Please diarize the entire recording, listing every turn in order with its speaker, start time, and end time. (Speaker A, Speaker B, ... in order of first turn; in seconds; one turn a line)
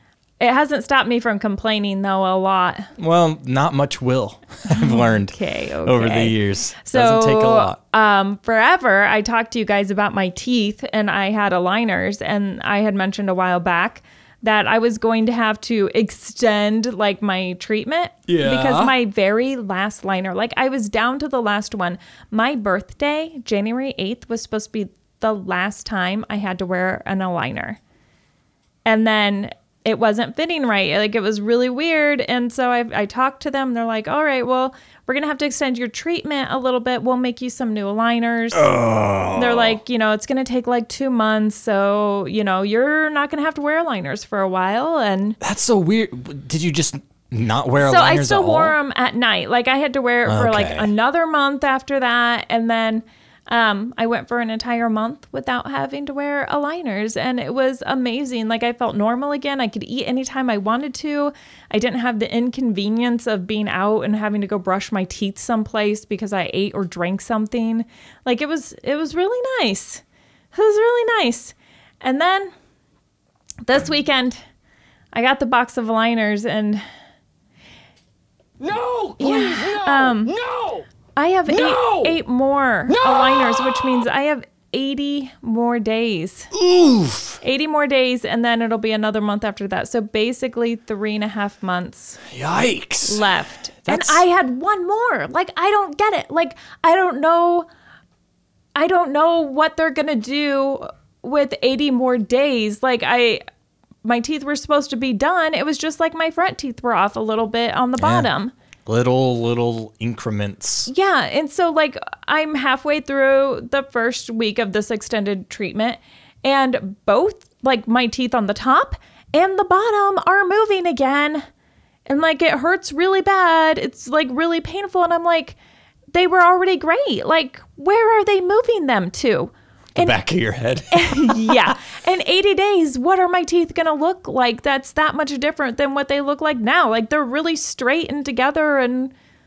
Speaker A: 0.4-2.9
Speaker B: 3.0-7.8
Speaker A: 4.7-27.8
Speaker B: 18.3-18.9
Speaker A: 28.9-38.7
Speaker B: 38.5-39.8
Speaker A: 39.4-45.4
Speaker B: 45.4-48.8
Speaker A: 47.8-70.0
Speaker B: 50.3-50.9
Speaker A: 70.5-72.5
Speaker A: 73.7-74.4
Speaker A: 75.1-76.8
Speaker C: 78.6-80.9
Speaker A: 79.2-80.3
Speaker A: 81.2-86.5
Speaker C: 81.5-82.2
Speaker C: 82.9-84.0
Speaker B: 86.5-87.4
Speaker A: 87.4-92.2
Speaker B: 92.3-93.3
Speaker A: 93.0-97.7
Speaker B: 93.8-94.2
Speaker A: 98.8-103.4
Speaker A: 104.0-108.5
Speaker B: 108.0-108.3
Speaker B: 108.9-110.9
Speaker A: 110.9-121.5
Speaker A: 122.1-125.6
Speaker A: 126.1-130.2
Speaker B: 130.0-131.8
Speaker A: 130.9-139.1